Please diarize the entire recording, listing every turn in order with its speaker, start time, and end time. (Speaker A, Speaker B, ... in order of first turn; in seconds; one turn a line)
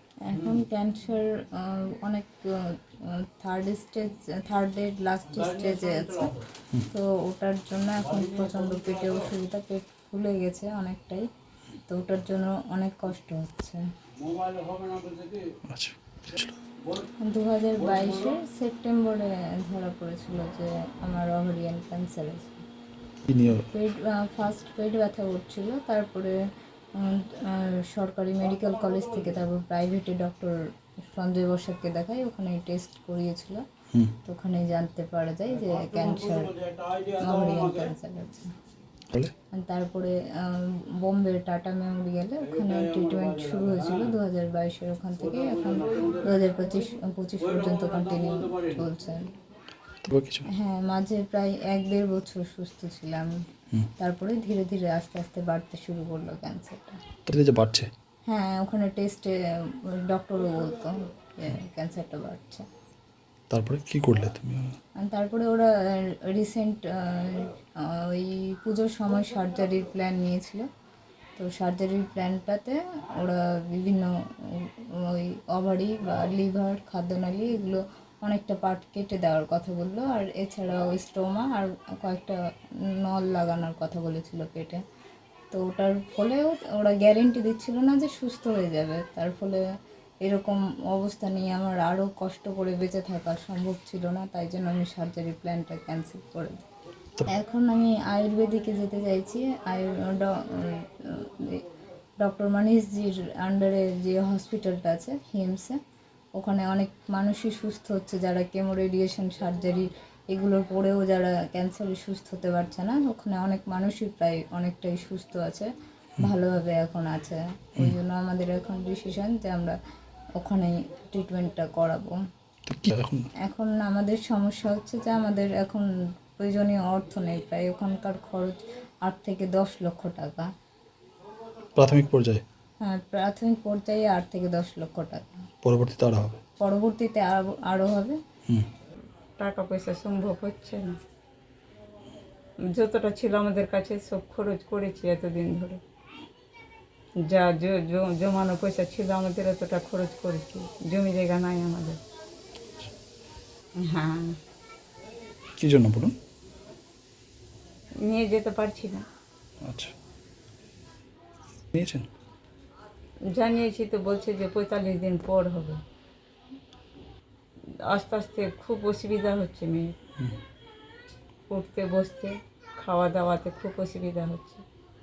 Speaker A: 0.2-11.2
Speaker A: 11.9-13.8
Speaker B: 15.7-16.6
Speaker A: 17.2-22.6
Speaker B: 23.2-23.7
Speaker A: 23.7-26.3
Speaker A: 26.9-30.6
Speaker A: 31.1-33.6
Speaker A: 34.2-36.6
Speaker A: 37.1-38.5
Speaker A: 39.5-49.3
Speaker B: 50.0-50.5
Speaker A: 50.5-53.3
Speaker A: 54.0-57.0
Speaker B: 57.2-57.9
Speaker A: 58.3-62.6
Speaker B: 63.5-64.8
Speaker A: 65.0-70.7
Speaker A: 71.4-82.4
Speaker A: 82.9-84.8
Speaker A: 85.5-89.6
Speaker A: 90.2-96.6
Speaker A: 97.3-101.6
Speaker A: 102.2-105.8
Speaker A: 106.3-119.8
Speaker A: 120.4-122.2
Speaker B: 122.7-123.3
Speaker A: 123.4-125.9
Speaker A: 126.4-130.5
Speaker B: 131.8-132.4
Speaker A: 132.8-135.3
Speaker B: 135.6-136.4
Speaker A: 136.6-138.2
Speaker C: 139.4-141.0
Speaker C: 142.7-145.8
Speaker C: 147.2-152.0
Speaker C: 153.8-154.3
Speaker B: 155.6-156.2
Speaker C: 158.0-159.1
Speaker B: 159.6-159.9
Speaker B: 161.7-162.1
Speaker C: 163.3-165.8
Speaker C: 167.9-169.9
Speaker C: 171.5-174.6